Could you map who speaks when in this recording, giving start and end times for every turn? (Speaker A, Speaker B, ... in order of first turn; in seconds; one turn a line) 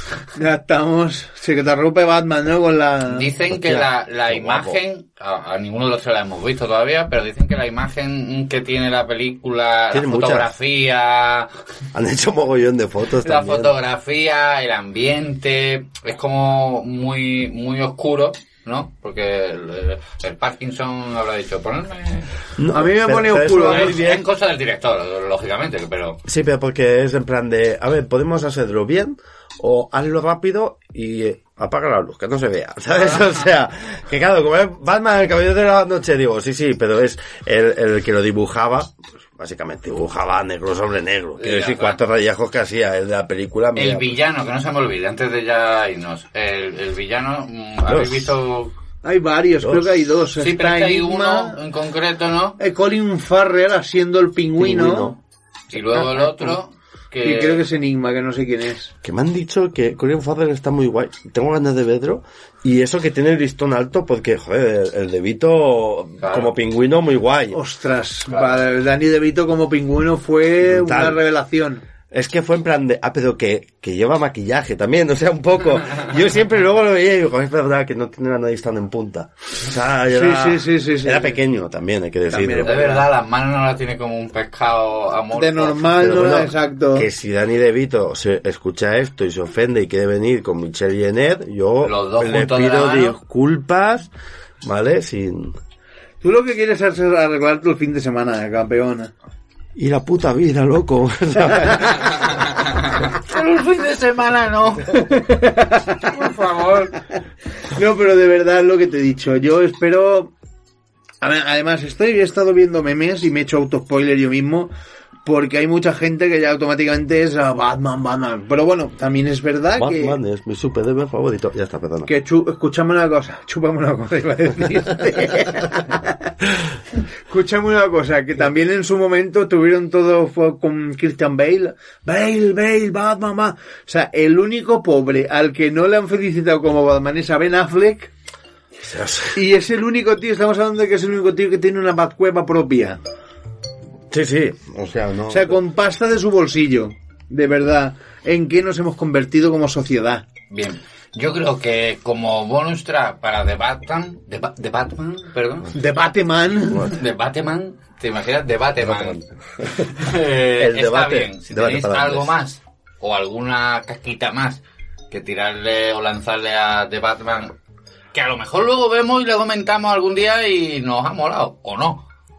Speaker A: 0.4-3.3
Speaker B: 3.0-11.5
Speaker C: 3.5-4.8
Speaker C: 9.9-10.5
Speaker C: 11.9-13.7
Speaker B: 13.2-22.3
Speaker C: 22.6-24.2
Speaker A: 22.7-23.9
Speaker B: 23.6-26.2
Speaker C: 26.3-44.2
Speaker B: 41.4-42.0
Speaker B: 43.8-48.7
Speaker C: 47.9-48.4
Speaker A: 49.0-51.6
Speaker C: 49.6-49.9
Speaker B: 50.4-52.6
Speaker A: 52.6-55.2
Speaker C: 54.6-55.2
Speaker C: 55.7-56.6
Speaker B: 55.7-57.7
Speaker A: 57.2-58.9
Speaker C: 59.0-67.6
Speaker B: 66.2-66.5
Speaker A: 67.5-71.8
Speaker B: 68.3-68.7
Speaker C: 70.6-71.2
Speaker C: 72.1-83.0
Speaker A: 80.1-81.4
Speaker A: 82.3-83.1
Speaker B: 82.6-86.2
Speaker A: 85.4-87.1
Speaker C: 86.0-94.1
Speaker B: 91.8-93.2
Speaker C: 94.6-95.6
Speaker A: 96.2-99.1
Speaker C: 99.8-102.2
Speaker B: 102.0-105.3
Speaker A: 105.1-105.9
Speaker B: 106.0-107.0
Speaker A: 107.8-110.3
Speaker A: 111.2-114.7
Speaker A: 115.3-120.1
Speaker C: 119.8-122.1
Speaker A: 122.1-126.0
Speaker A: 127.3-138.1
Speaker C: 138.8-139.4
Speaker A: 139.4-143.0
Speaker C: 144.1-145.6
Speaker A: 145.3-150.2
Speaker B: 150.5-155.7
Speaker A: 155.8-156.9
Speaker B: 156.8-159.2
Speaker C: 158.8-159.9
Speaker B: 159.8-167.5
Speaker C: 160.6-162.3
Speaker B: 168.1-172.1